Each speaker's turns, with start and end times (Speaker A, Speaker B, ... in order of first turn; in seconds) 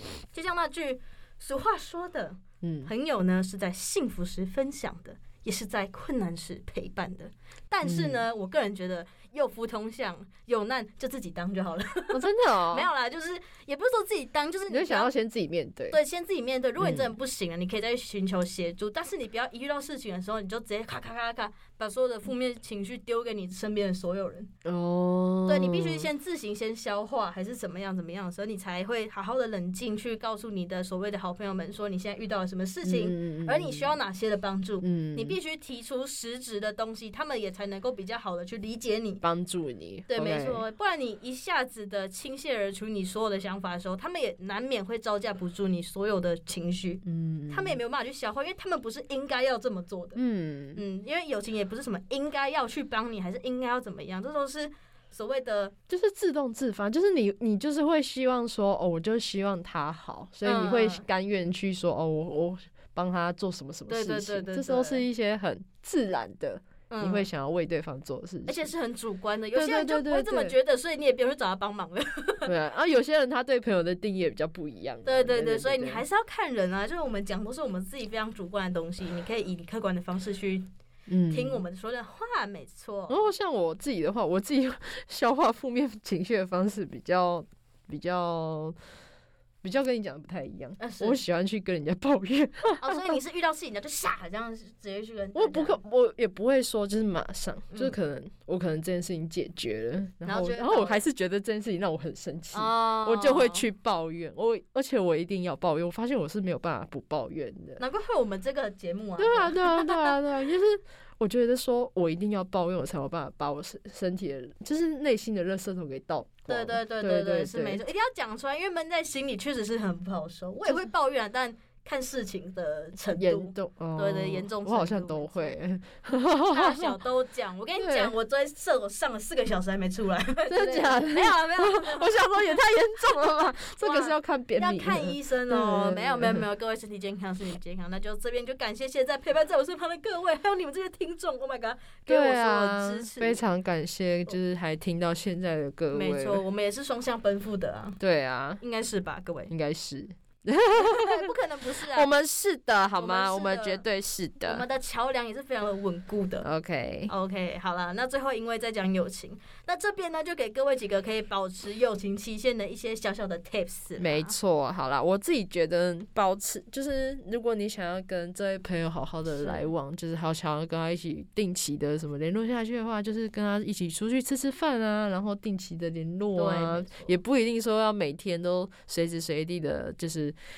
Speaker A: 0.2-15.1, 15.9-24.5, 25.5-39.2, 40.1-50.2, 50.8-55.7, 60.4-61.0, 63.9-65.0, 66.9-67.3, 68.5-72.5, 75.0-80.7, 81.3-83.3, 90.8-91.2, 92.8-95.8, 100.2-101.0, 102.5-103.6, 107.8-110.2, 116.5-125.5, 126.5-132.2, 133.8-143.4, 145.9-148.0, 148.6-149.5, 150.7-152.1, 153.0-153.8, 154.4-156.4, 157.1-164.3, 169.3-169.7, 176.3-177.1
Speaker B: 2.6-2.9, 7.8-8.2, 12.1-12.9, 14.7-16.0, 16.8-17.1, 24.6-26.1, 32.8-33.9, 34.8-35.4, 39.2-40.6, 47.0-47.8, 50.1-50.8, 55.9-68.7, 69.5-70.5, 72.5-76.0, 81.1-81.6, 83.1-88.7, 89.6-93.2, 95.3-107.8, 109.2-117.8, 120.6-120.9, 123.1-127.0, 127.8-128.1, 130.5-136.4, 142.1-146.4, 148.0-148.6, 149.5-154.6, 156.4-157.1, 164.0-180.3